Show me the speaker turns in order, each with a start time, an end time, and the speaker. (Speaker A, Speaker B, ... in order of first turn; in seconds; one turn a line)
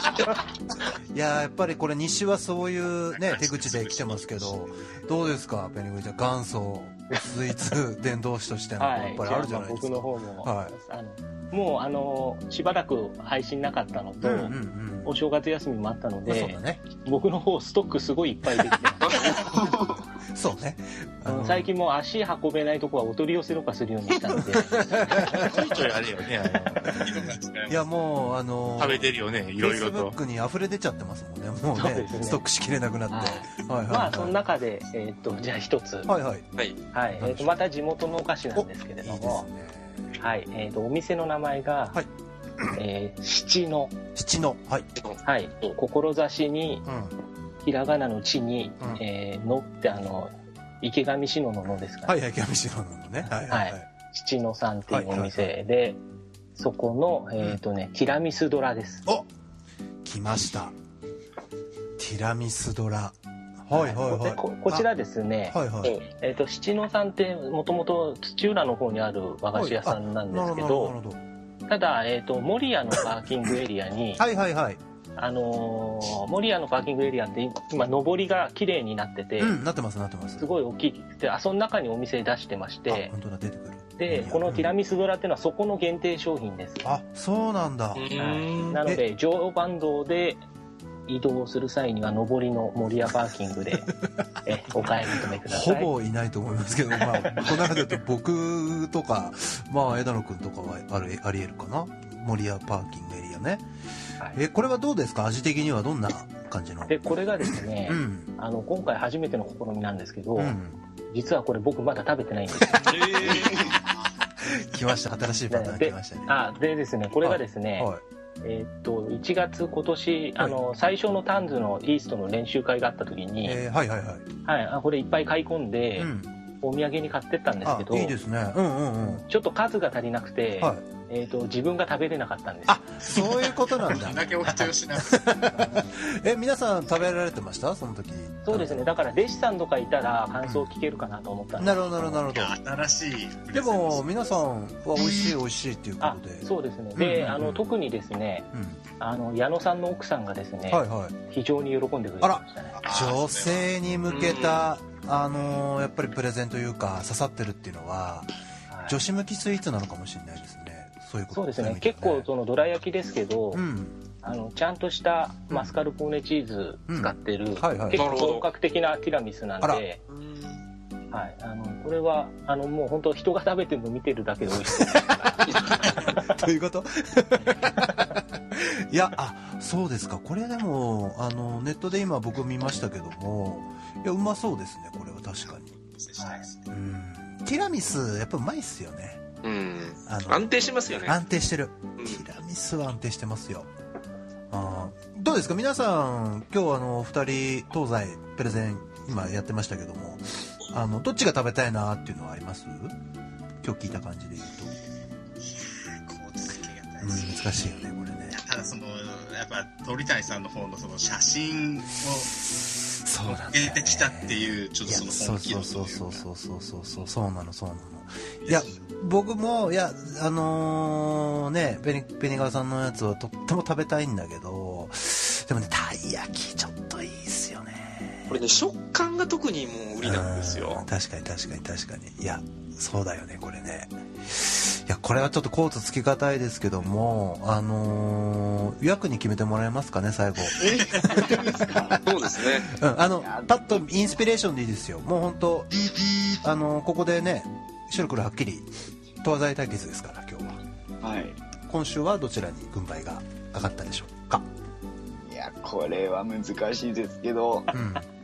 Speaker A: 1.1-10.8
Speaker B: 3.1-4.7
Speaker C: 8.8-19.1
Speaker A: 14.2-15.2
Speaker A: 16.2-16.8
Speaker D: 19.0-19.7
Speaker A: 20.2-21.7
Speaker C: 21.3-25.5
Speaker A: 24.5-25.8
Speaker E: 25.4-27.1
Speaker A: 26.7-27.1
Speaker B: 26.9-27.9
Speaker A: 27.7-34.4
Speaker E: 28.8-30.2
Speaker C: 31.7-32.4
Speaker C: 33.1-36.1
Speaker A: 36.1-36.5
Speaker C: 36.9-39.5
Speaker A: 37.1-37.7
Speaker A: 38.5-40.2
Speaker C: 40.2-42.0
Speaker C: 42.7-43.9
Speaker A: 44.1-44.9
Speaker C: 45.2-46.9
Speaker A: 46.9-47.1
Speaker C: 47.6-52.2
Speaker A: 52.0-53.9
Speaker C: 53.3-56.0
Speaker A: 54.9-55.5
Speaker C: 56.6-59.0
Speaker A: 60.0-60.8
Speaker A: 62.0-64.9
Speaker C: 63.7-71.0
Speaker A: 65.5-66.0
Speaker A: 69.5-71.2
Speaker C: 71.7-74.2
Speaker A: 74.2-74.8
Speaker C: 75.2-79.6
Speaker A: 79.4-80.5
Speaker C: 80.4-83.1
Speaker A: 82.9-84.7
Speaker C: 84.0-86.8
Speaker A: 86.8-88.1
Speaker D: 88.0-88.8
Speaker C: 88.2-90.4
Speaker A: 88.8-89.0
Speaker C: 91.1-93.9
Speaker C: 94.5-95.9
Speaker A: 94.8-103.7
Speaker C: 97.2-97.6
Speaker A: 104.3-107.0
Speaker C: 106.9-110.6
Speaker A: 107.6-108.3
Speaker A: 110.4-110.8
Speaker C: 111.1-113.1
Speaker D: 112.8-113.7
Speaker A: 114.4-116.4
Speaker C: 115.5-123.6
Speaker A: 117.2-118.0
Speaker A: 123.4-124.2
Speaker C: 124.5-128.2
Speaker A: 126.0-126.3
Speaker A: 127.6-129.2
Speaker C: 129.2-132.8
Speaker A: 132.7-139.0
Speaker B: 133.1-135.2
Speaker C: 135.6-135.8
Speaker C: 138.4-142.2
Speaker A: 141.6-142.6
Speaker B: 142.3-144.1
Speaker A: 143.5-147.7
Speaker C: 146.0-152.7
Speaker A: 148.5-148.8
Speaker A: 150.7-151.2
Speaker A: 152.2-158.3
Speaker B: 152.8-153.7
Speaker D: 154.1-154.7
Speaker C: 158.7-159.0
Speaker A: 158.9-162.3
Speaker C: 161.3-163.7
Speaker A: 163.5-164.0
Speaker C: 164.2-170.0
Speaker A: 165.5-165.8
Speaker A: 166.9-168.1
Speaker D: 167.9-168.5
Speaker D: 170.1-170.6
Speaker C: 171.1-175.5
Speaker A: 174.7-185.8
Speaker B: 185.8-186.7
Speaker C: 186.2-186.4
Speaker A: 186.7-189.2
Speaker D: 189.4-191.2
Speaker A: 190.1-193.7
Speaker D: 192.0-192.2
Speaker A: 194.5-202.9
Speaker A: 203.6-204.8
Speaker B: 205.4-207.7
Speaker A: 207.0-208.4
Speaker B: 208.3-212.4
Speaker A: 213.0-228.4
Speaker B: 213.2-216.2
Speaker B: 218.4-218.8
Speaker D: 228.3-230.9
Speaker A: 230.0-245.7
Speaker F: 240.5-242.0
Speaker D: 242.0-242.7
Speaker F: 243.1-243.8
Speaker A: 246.4-248.7
Speaker A: 249.2-250.6
Speaker F: 251.0-251.4
Speaker A: 251.7-254.5
Speaker F: 255.2-257.7
Speaker A: 257.7-258.1